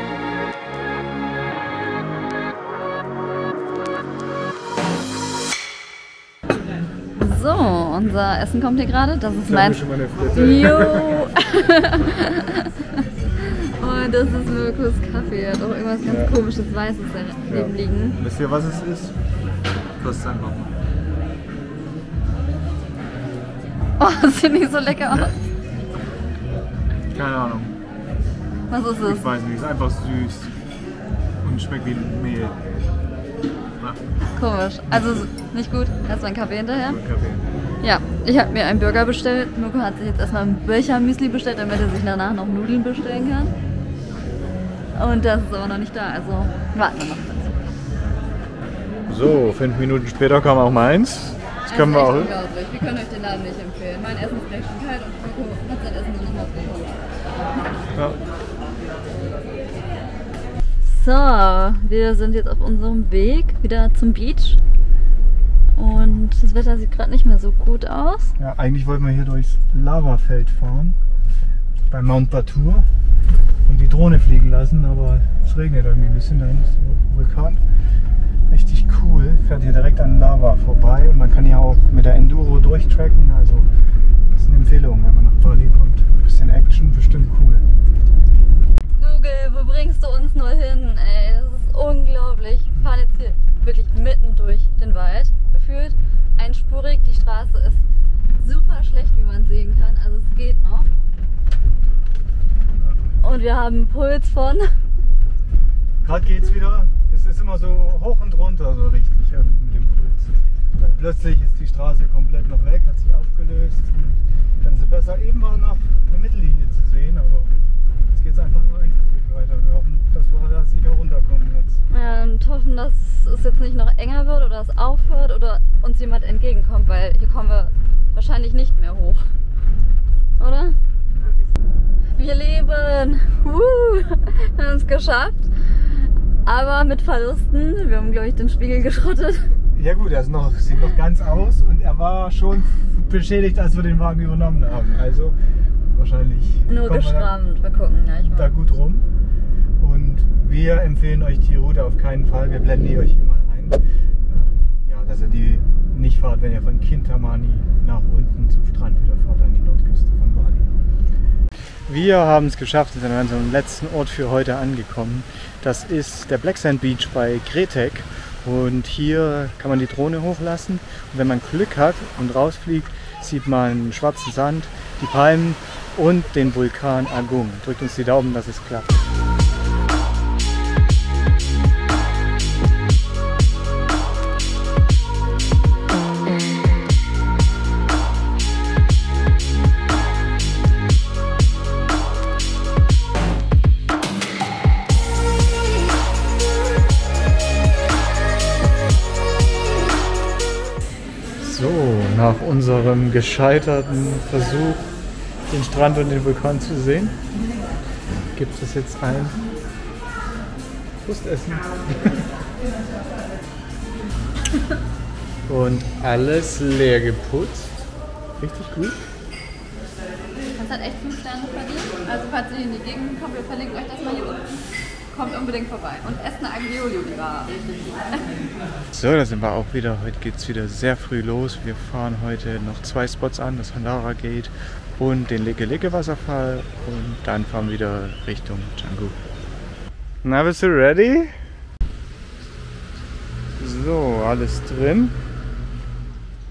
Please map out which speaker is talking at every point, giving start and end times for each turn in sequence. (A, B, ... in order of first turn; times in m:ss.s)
0:07.2-0:18.2 A
0:09.4-0:11.2 B
0:16.0-0:16.3 B
0:17.5-0:19.2 B
0:20.0-0:20.7 B
0:24.0-0:25.3 A
0:27.1-0:27.7 B
0:28.7-0:29.3 A
0:29.0-0:30.5 B
0:31.4-0:32.6 B
0:34.3-0:37.0 A
0:34.9-0:35.3 B
0:36.8-0:37.5 B
0:37.8-0:43.5 A
0:45.0-0:47.6 A
0:49.1-0:52.3 B
0:51.6-0:57.0 A
0:57.9-0:58.2 B
1:00.8-1:04.6 A
1:05.8-1:08.3 A
1:05.9-1:06.2 B
1:08.4-1:11.0 B
1:11.9-1:12.9 B
1:13.6-1:17.6 B
1:18.5-1:23.7 B
1:24.3-1:27.6 B
1:29.0-1:37.8 A
1:38.4-1:40.9 A
1:42.7-1:43.2 B
1:43.2-1:44.7 A
1:46.0-1:57.6 B
1:58.1-2:01.8 B
2:01.9-2:09.2 A
2:10.4-2:10.8 A
2:11.1-2:11.4 B
2:12.1-2:19.5 A
2:19.6-2:25.4 B
2:25.9-2:27.3 B
2:26.7-2:28.6 A
2:28.3-2:29.0 B
2:29.8-2:40.7 B
2:41.9-2:59.0 B
3:21.4-3:24.9 B
3:25.5-3:27.2 B
3:28.3-3:29.4 B
3:31.0-3:32.3 B
3:35.5-3:37.8 B
3:38.4-3:39.0 B
3:40.5-3:48.4 A
3:48.9-3:59.2 B
4:00.2-4:01.4 B
4:03.6-4:05.2 B